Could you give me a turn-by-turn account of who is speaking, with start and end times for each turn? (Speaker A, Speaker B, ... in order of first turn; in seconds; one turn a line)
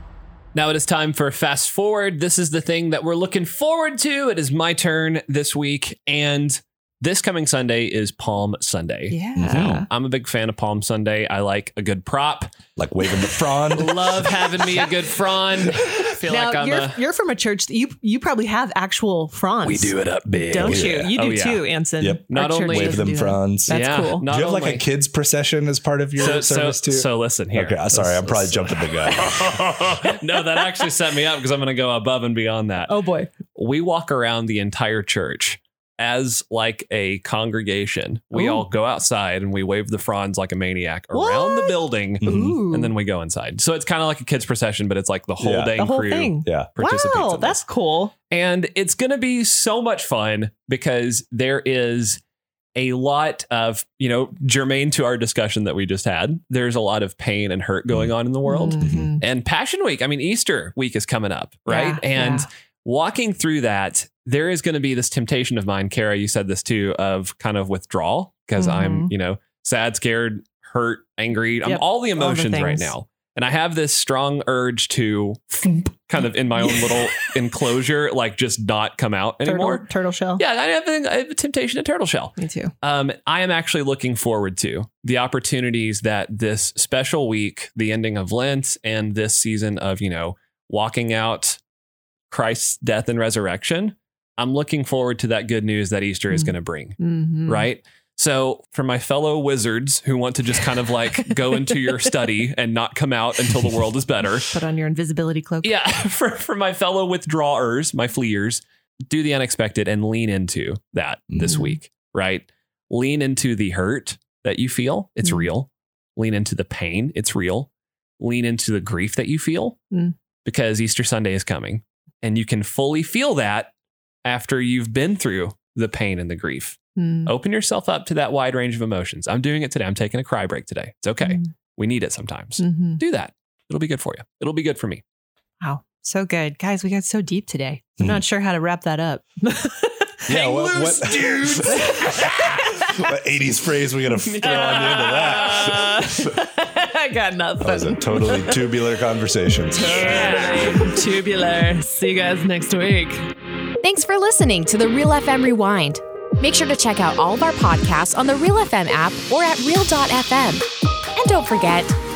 Speaker A: 0.5-12.5
Speaker B: 9.1-9.9
Speaker C: 9.3-9.8
Speaker C: 12.8-14.6
Speaker A: 13.6-17.0
Speaker B: 16.1-20.0
Speaker C: 20.3-21.1
Speaker B: 20.5-24.2
Speaker A: 20.5-21.7
Speaker C: 22.0-29.8
Speaker A: 22.3-23.1
Speaker A: 23.7-24.8
Speaker A: 26.2-32.9
Speaker B: 32.9-33.3
Speaker A: 33.5-47.6
Speaker B: 38.3-38.6
Speaker B: 41.1-42.9
Speaker C: 42.2-42.6
Speaker C: 45.4-45.8
Speaker B: 45.8-48.1
Speaker C: 46.4-46.7
Speaker A: 48.3-52.2
Speaker A: 52.7-79.8
Speaker B: 58.4-59.2
Speaker C: 58.8-59.1
Speaker B: 61.7-62.5
Speaker B: 68.6-69.1
Speaker B: 71.6-72.9
Speaker B: 79.4-80.4
Speaker A: 80.4-91.6
Speaker B: 82.4-82.7
Speaker A: 92.3-104.5
Speaker B: 96.3-97.7
Speaker B: 104.5-105.7
Speaker A: 105.6-119.8
Speaker B: 111.4-111.8
Speaker A: 120.4-123.7
Speaker A: 124.2-135.0
Speaker B: 127.0-127.3
Speaker B: 132.6-133.0
Speaker B: 135.6-143.1
Speaker C: 140.3-146.4
Speaker A: 140.3-141.8
Speaker A: 144.2-146.0
Speaker B: 144.4-148.8
Speaker C: 147.6-150.7
Speaker B: 149.7-153.3
Speaker A: 149.8-151.0
Speaker D: 153.8-160.6
Speaker D: 161.2-161.9